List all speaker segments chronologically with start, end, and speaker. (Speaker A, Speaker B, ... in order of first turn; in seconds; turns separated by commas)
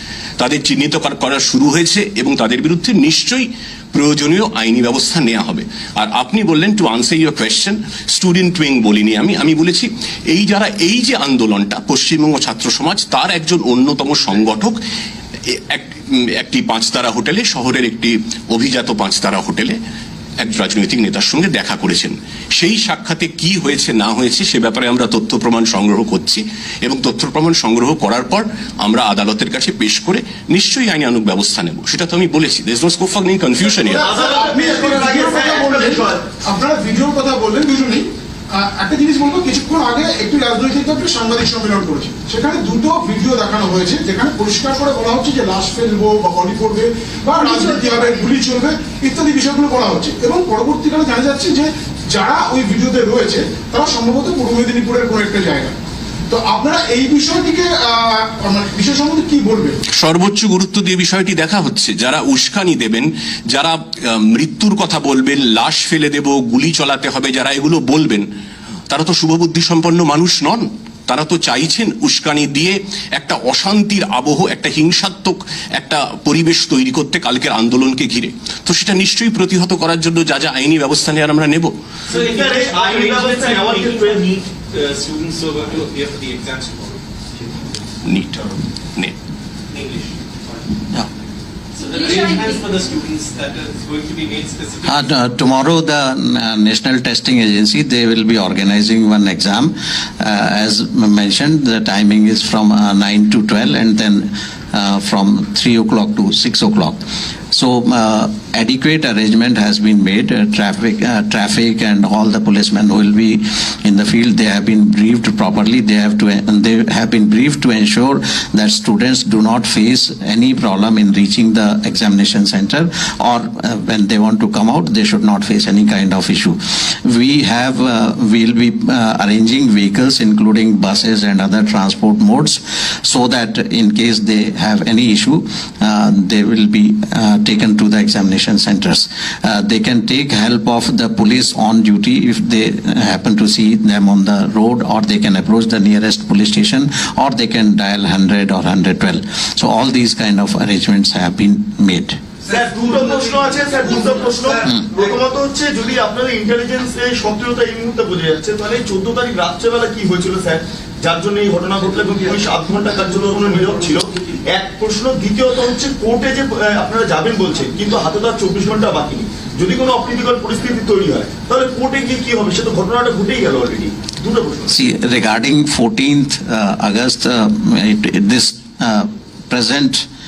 Speaker A: 0.4-14.8, Speaker A: 15.5-19.8, Speaker A: 20.4-34.1, Speaker B: 33.8-55.7, Speaker C: 34.0-36.2, Speaker B: 56.3-59.8, Speaker A: 59.9-68.3, Speaker A: 68.9-81.8, Speaker C: 82.2-84.4, Speaker D: 84.7-87.0, Speaker A: 88.0-89.2, Speaker D: 89.7-90.1, Speaker D: 91.8-94.9, Speaker E: 94.8-107.0, Speaker E: 107.5-152.2, Speaker C: 152.5-174.8, Speaker E: 174.7-180.1